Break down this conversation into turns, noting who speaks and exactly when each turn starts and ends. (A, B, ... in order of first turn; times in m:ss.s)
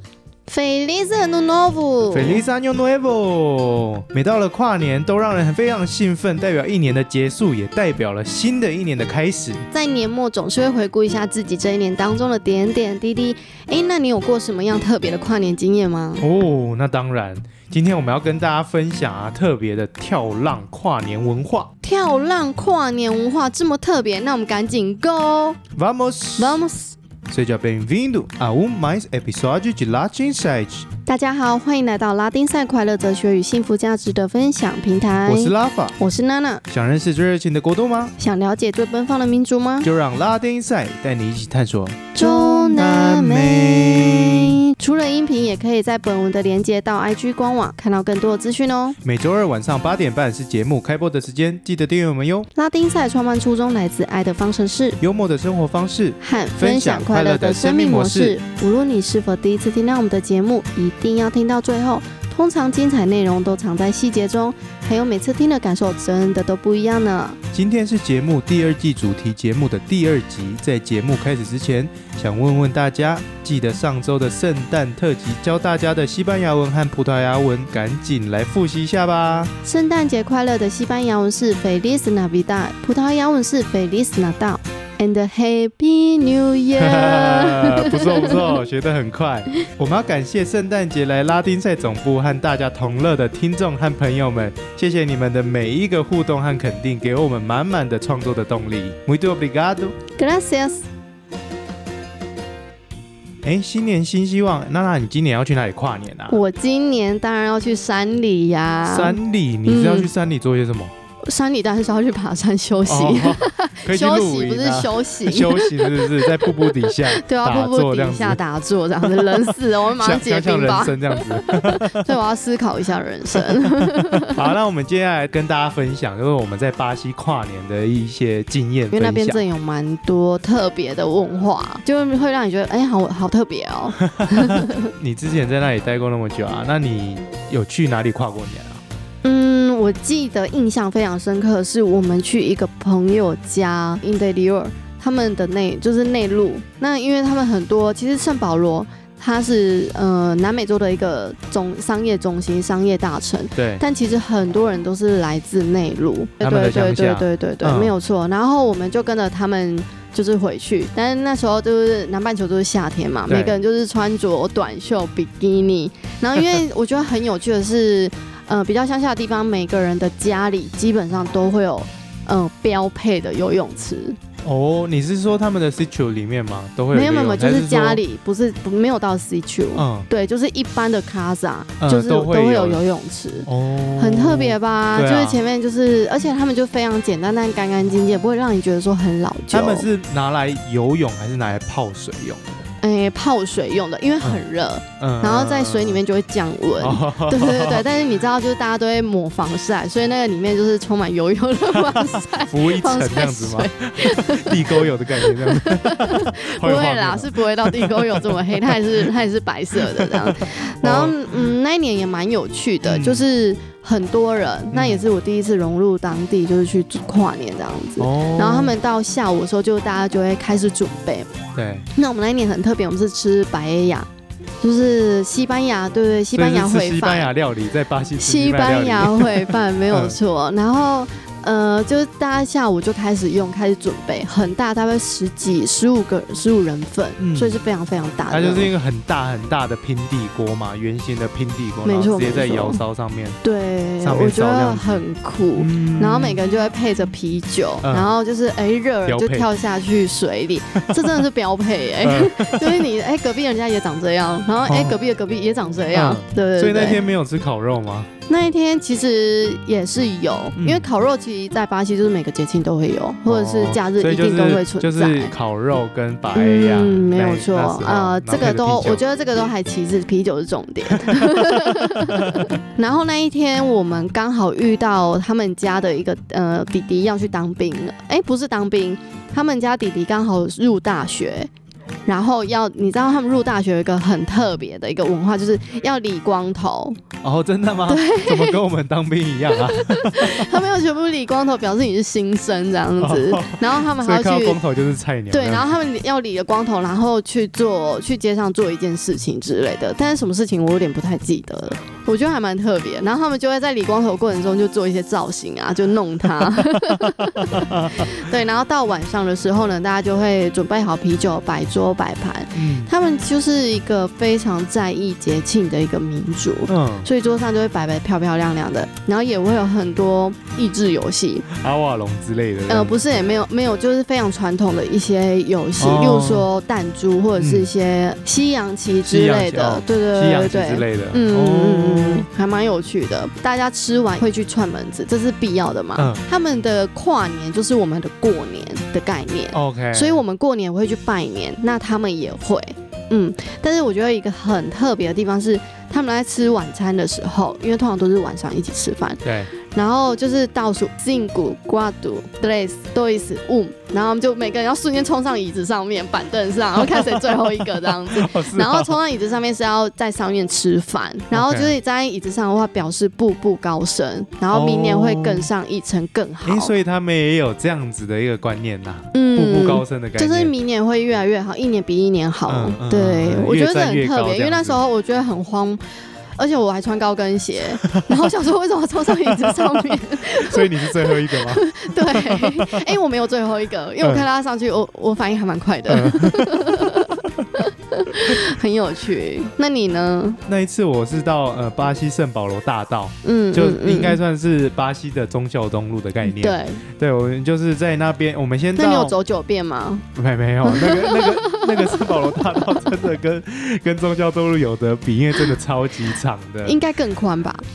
0:00.5-0:02.4 A
0:02.1-0:09.6 B
0:09.7-0:16.2 A
0:16.2-0:21.7 B
0:21.8-0:25.6 A
0:25.7-0:26.6 B
0:26.4-0:27.0 A
0:27.3-0:30.9 B
0:31.0-0:36.6 A
0:35.2-0:36.0 B
0:36.7-0:38.1 B
0:38.2-0:39.9 A
0:39.8-0:44.6 B
0:42.1-0:49.0 A
0:49.0-0:52.5 B
0:52.5-0:55.0 A
0:55.0-0:58.4 B
0:56.2-1:07.4 A
1:07.5-1:19.5 B
1:19.6-1:28.4 A
1:26.8-1:39.9 B
1:40.2-1:40.8 A
1:43.4-1:46.4 B
1:46.3-1:50.1 A
1:48.8-1:50.9 B
1:51.2-2:04.4 A
1:52.8-1:58.4 B
1:59.0-2:02.1 B
2:03.3-2:09.4 B
2:08.9-2:14.9 A
2:14.0-2:18.8 B
2:19.2-2:54.2 A
2:33.6-2:33.8 B
2:36.4-2:37.9 B
2:43.3-2:43.6 B
2:54.4-2:58.0 B
2:56.9-3:09.9 A
2:59.7-3:00.1 B
3:01.8-3:02.8 B
3:03.4-3:05.4 B
3:09.5-3:12.6 B
3:12.8-3:41.3 A
3:15.0-3:16.0 B
3:16.8-3:17.9 B
3:21.7-3:28.8 B
3:30.0-3:31.5 B
3:32.8-3:33.2 B
3:34.7-3:35.1 B
3:38.0-3:38.8 B
3:41.5-3:41.9 B
3:41.9-3:44.1 A
3:44.6-3:47.3 A
3:46.3-3:49.4 B
3:48.2-3:58.7 A
3:49.9-3:50.2 B
3:57.2-3:57.6 B
3:58.3-4:03.4 B
4:01.8-4:02.8 A
4:03.4-4:17.0 A
4:04.0-4:05.0 B
4:05.5-4:06.4 B
4:07.8-4:08.1 B
4:09.1-4:09.5 B
4:10.8-4:11.2 B
4:12.0-4:12.9 B
4:14.7-4:15.0 B
4:15.9-4:18.1 B
4:18.3-4:25.3 A
4:20.6-4:20.9 B
4:23.2-4:29.0 B
4:26.3-4:41.5 A
4:30.9-4:32.5 B
4:42.0-4:47.0 A
4:47.2-4:50.6 B
4:47.9-4:48.6 A
4:49.5-4:54.6 A
4:53.0-4:55.8 B
4:55.3-5:21.5 A
5:06.4-5:08.2 B
5:12.5-5:12.9 B
5:16.7-5:17.1 B
5:21.5-5:23.0 B
5:22.7-6:06.7 A
5:25.8-5:26.5 B
5:27.4-5:27.7 B
5:29.0-5:32.2 B
5:36.0-5:36.2 B
5:39.5-5:40.2 B
5:49.2-5:49.5 B
5:56.8-5:58.9 B
6:01.3-6:01.7 B
6:04.5-6:05.5 B
6:06.4-6:10.5 B
6:09.1-6:15.8 A
6:12.5-6:14.8 B
6:16.4-6:30.4 A
6:17.9-6:18.2 B
6:19.4-6:22.8 B
6:25.9-6:27.5 B
6:30.5-6:39.2 B
6:33.2-6:34.2 A
6:36.2-6:36.8 A
6:38.8-6:40.0 A
6:40.1-6:46.8 B
6:40.6-6:42.0 A
6:46.6-6:47.6 A